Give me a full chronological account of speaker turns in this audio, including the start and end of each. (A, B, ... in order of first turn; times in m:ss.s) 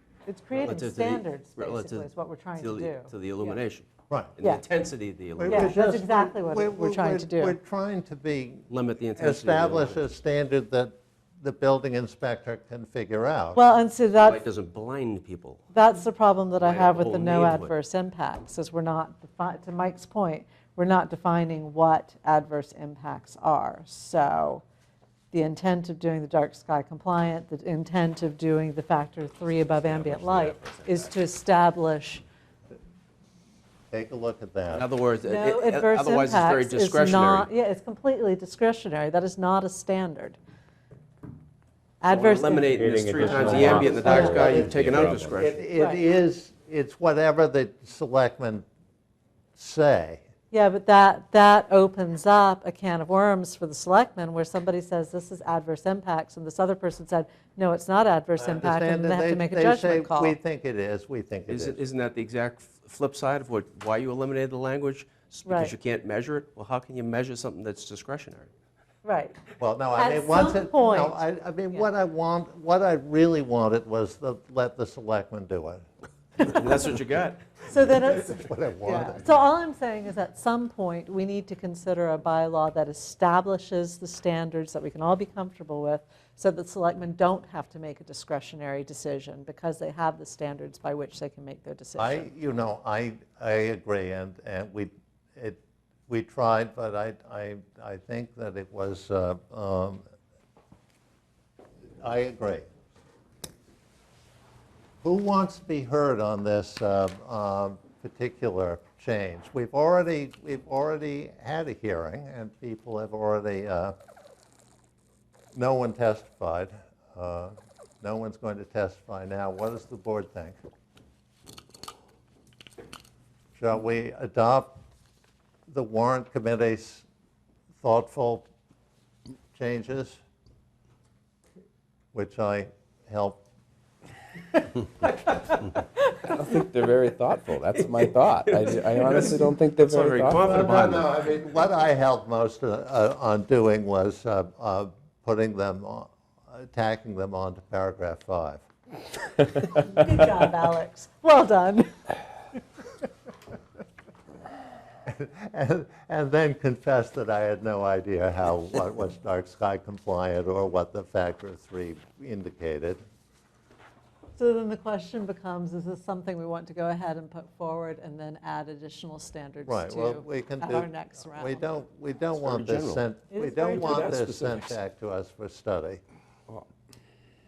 0:00.2-0:03.6 A
0:00.5-0:03.9 B
0:04.4-0:05.7 B
0:05.4-0:13.6 C
0:05.4-0:07.6 A
0:08.7-0:10.0 B
0:13.5-0:14.4 A
0:14.2-0:15.6 B
0:15.7-0:24.6 A
0:16.6-0:17.7 B
0:25.3-0:32.2 A
0:29.8-0:31.1 D
0:33.9-0:34.8 C
0:34.7-0:37.5 B
0:35.2-0:40.4 A
0:42.0-0:44.4 A
0:42.1-0:45.6 B
0:42.6-0:45.4 D
0:43.5-0:48.6 C
0:49.6-0:50.2 C
0:50.5-1:00.4 A
0:58.4-1:01.8 C
1:01.5-1:08.5 B
1:05.4-1:05.7 A
1:09.0-1:09.4 A
1:09.6-1:15.8 C
1:09.9-1:11.2 A
1:16.4-1:17.4 B
1:17.7-1:32.3 A
1:18.0-1:19.3 C
1:32.0-1:40.0 C
1:42.0-1:42.6 C
1:45.0-1:53.9 C
1:55.5-2:00.6 C
2:03.6-2:04.8 C
2:05.7-2:07.0 C
2:07.8-2:08.5 C
2:09.5-2:10.2 C
2:12.1-2:13.4 C
2:16.1-2:20.6 D
2:18.4-2:21.2 B
2:20.4-2:28.6 C
2:29.6-2:31.9 A
2:35.0-2:43.0 C
2:44.4-2:51.7 A
2:49.7-2:56.0 C
2:52.4-2:53.0 B
2:53.3-2:54.2 A
2:53.7-2:54.7 B